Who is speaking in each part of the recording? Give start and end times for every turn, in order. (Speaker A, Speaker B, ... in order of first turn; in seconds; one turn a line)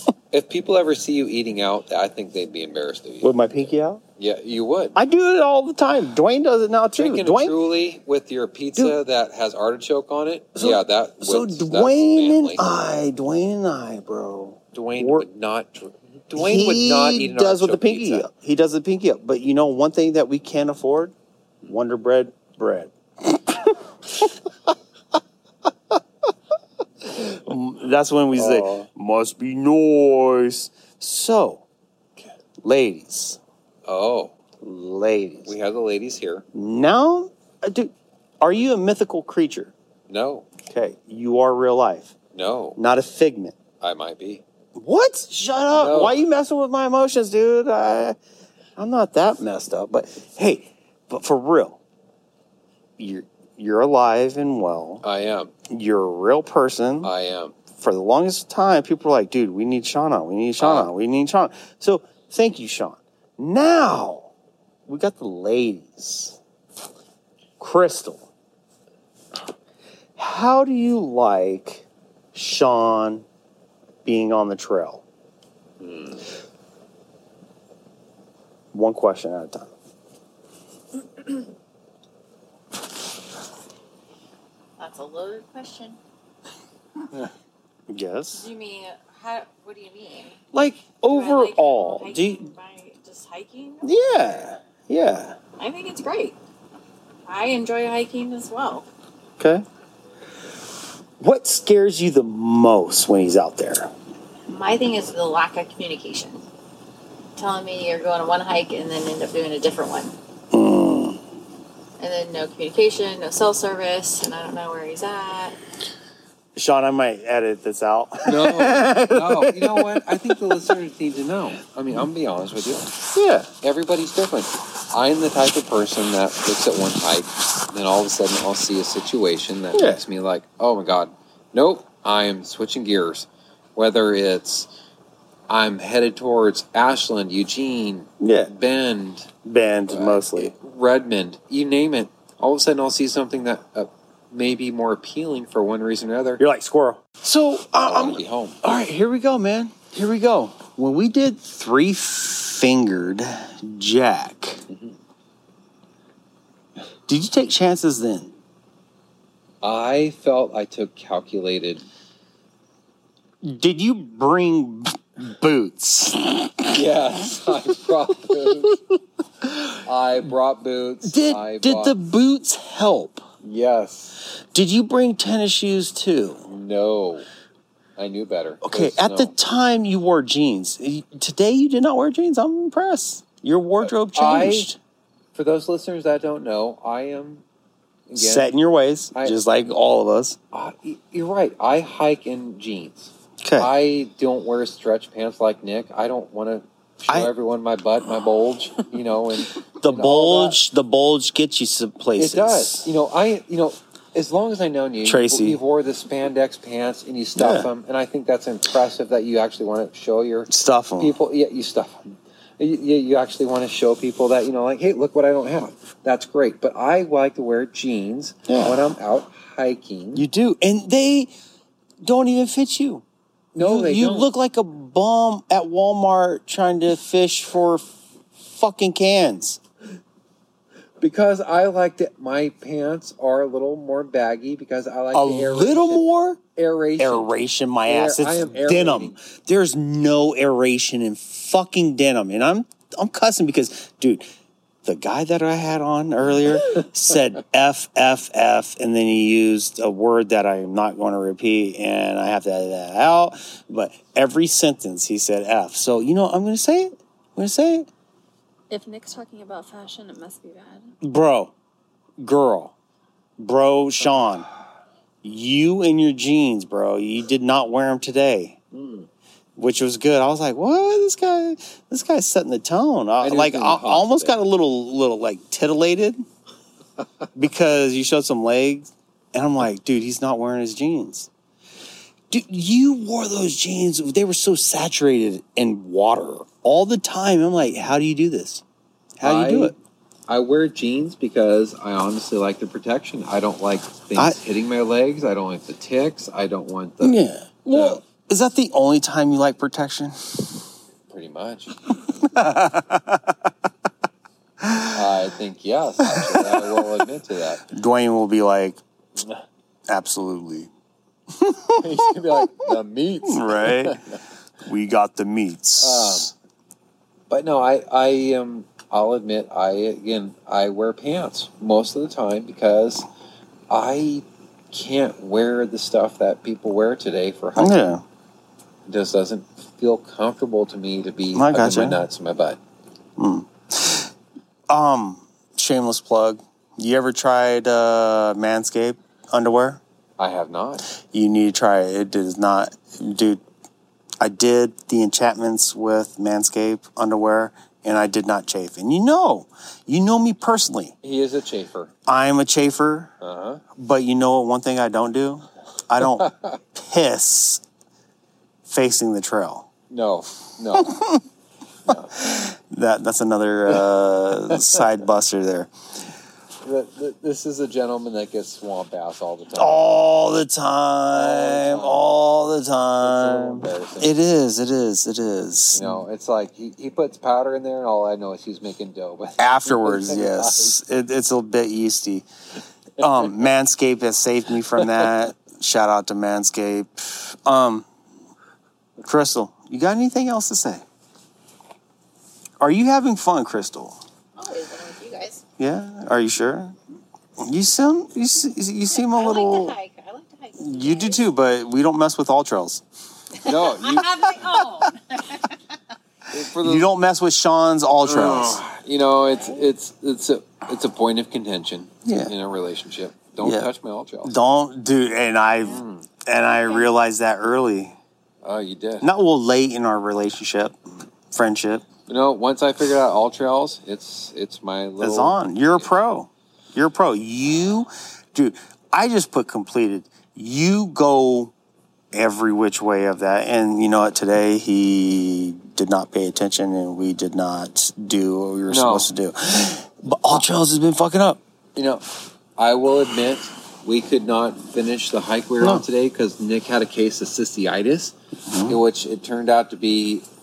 Speaker A: 0.3-3.7
Speaker B: 3.2-4.0
Speaker A: 4.2-5.0
Speaker B: 5.0-7.5
Speaker A: 7.0-12.7
Speaker B: 10.6-15.3
Speaker A: 14.7-18.3
Speaker B: 16.3-24.3
Speaker B: 27.0-31.6
Speaker A: 28.4-28.7
Speaker B: 32.6-33.4
Speaker A: 33.9-34.4
Speaker B: 34.6-35.5
Speaker A: 35.5-36.5
Speaker B: 36.5-39.7
Speaker A: 40.1-40.5
Speaker B: 40.7-42.1
Speaker A: 42.3-42.8
Speaker B: 42.8-43.5
Speaker A: 43.8-44.4
Speaker B: 44.8-48.2
Speaker A: 45.7-46.2
Speaker B: 48.8-51.8
Speaker B: 53.0-55.0
Speaker A: 55.0-55.5
Speaker B: 55.7-57.1
Speaker A: 57.0-57.5
Speaker B: 57.7-64.3
Speaker A: 60.6-60.9
Speaker B: 64.9-66.4
Speaker B: 67.6-68.3
Speaker B: 70.2-73.2
Speaker B: 74.0-75.0
Speaker A: 75.8-76.2
Speaker B: 78.7-79.7
Speaker C: 84.8-86.0
Speaker B: 87.9-88.5
Speaker C: 88.3-90.4
Speaker B: 90.5-92.5
Speaker C: 91.1-94.5
Speaker B: 93.8-95.4
Speaker C: 95.6-96.4
Speaker C: 97.3-98.9
Speaker B: 99.4-99.7
Speaker B: 101.2-103.9
Speaker C: 104.5-106.4
Speaker C: 107.4-110.1
Speaker B: 110.5-111.2
Speaker C: 112.0-115.6
Speaker B: 116.6-120.6
Speaker A: 118.2-122.9
Speaker B: 123.1-123.5
Speaker A: 123.6-134.7
Speaker B: 129.7-130.0
Speaker A: 135.5-139.3
Speaker B: 138.2-138.5
Speaker B: 139.4-140.5
Speaker A: 139.9-146.4
Speaker B: 146.4-154.6
Speaker A: 147.8-148.6
Speaker A: 154.7-155.0
Speaker B: 157.1-158.3
Speaker A: 159.6-161.8
Speaker B: 163.4-166.8
Speaker A: 166.7-168.8
Speaker B: 168.2-168.8
Speaker A: 169.8-172.0
Speaker B: 171.0-173.2
Speaker A: 173.4-174.2
Speaker B: 174.5-176.4
Speaker A: 176.5-177.3
Speaker A: 178.0-179.3
Speaker B: 178.6-184.8
Speaker A: 183.9-184.7
Speaker A: 185.3-187.4
Speaker A: 188.1-188.5
Speaker B: 188.2-190.4
Speaker A: 189.1-189.4
Speaker A: 190.5-200.6
Speaker B: 193.4-193.7
Speaker B: 199.8-202.9
Speaker A: 202.2-212.1
Speaker B: 205.1-205.6
Speaker B: 207.4-207.7
Speaker B: 210.5-211.2
Speaker A: 212.6-220.3
Speaker B: 218.5-218.8
Speaker B: 220.2-221.3
Speaker B: 222.0-223.0
Speaker A: 223.6-224.3
Speaker B: 223.6-227.8
Speaker B: 228.4-229.6
Speaker A: 231.0-239.2
Speaker B: 235.1-236.4
Speaker B: 237.0-244.2
Speaker B: 244.8-257.9
Speaker D: 258.7-260.9
Speaker B: 261.0-261.5
Speaker B: 262.2-262.7
Speaker B: 263.4-264.5
Speaker B: 265.2-268.6
Speaker A: 268.7-269.1
Speaker B: 269.6-276.2
Speaker A: 273.2-274.4
Speaker B: 277.4-281.3
Speaker B: 282.3-288.6
Speaker B: 289.2-289.7
Speaker A: 289.2-289.8
Speaker A: 290.3-298.0
Speaker B: 297.0-300.5
Speaker A: 301.1-301.7
Speaker B: 302.2-303.5
Speaker B: 304.6-305.0
Speaker A: 304.9-307.6
Speaker B: 306.0-307.1
Speaker B: 307.7-308.8
Speaker B: 309.9-310.7
Speaker B: 311.3-312.7
Speaker A: 311.8-314.2
Speaker B: 313.3-314.0
Speaker B: 314.6-316.3
Speaker A: 315.8-316.3
Speaker A: 317.3-323.1
Speaker A: 323.7-327.9
Speaker B: 327.6-328.0
Speaker A: 328.9-332.6
Speaker B: 331.3-332.0
Speaker B: 333.2-334.1
Speaker B: 334.7-339.8
Speaker A: 340.2-340.9
Speaker B: 341.1-343.4
Speaker B: 344.2-350.9
Speaker A: 351.0-351.9
Speaker B: 352.1-353.1
Speaker A: 353.2-353.6
Speaker B: 353.8-357.6
Speaker A: 356.1-356.6
Speaker B: 358.6-359.7
Speaker A: 359.9-361.0
Speaker B: 360.8-361.2
Speaker A: 361.9-362.2
Speaker B: 361.9-365.7
Speaker A: 366.6-369.9
Speaker B: 369.6-376.0
Speaker A: 371.1-372.1
Speaker A: 373.0-374.1
Speaker A: 375.8-380.8
Speaker B: 379.4-382.3
Speaker B: 383.0-387.9
Speaker B: 389.0-390.8
Speaker B: 392.6-394.0
Speaker C: 394.4-395.4
Speaker B: 395.6-396.8
Speaker B: 397.4-399.8
Speaker C: 398.9-401.3
Speaker B: 400.6-402.8
Speaker A: 403.4-404.1
Speaker C: 403.5-405.4
Speaker A: 406.3-406.9
Speaker B: 406.6-408.6
Speaker A: 408.1-414.4
Speaker C: 409.3-409.7
Speaker B: 412.1-412.3
Speaker B: 413.4-413.7
Speaker B: 414.2-418.0
Speaker A: 415.7-416.1
Speaker A: 418.4-419.1
Speaker B: 419.0-420.8
Speaker B: 421.3-421.9
Speaker A: 422.1-425.9
Speaker B: 425.0-431.5
Speaker B: 432.1-441.4
Speaker A: 438.7-439.1
Speaker A: 441.8-442.0
Speaker A: 442.6-448.1
Speaker B: 445.6-445.9
Speaker B: 448.5-448.8
Speaker A: 448.7-450.2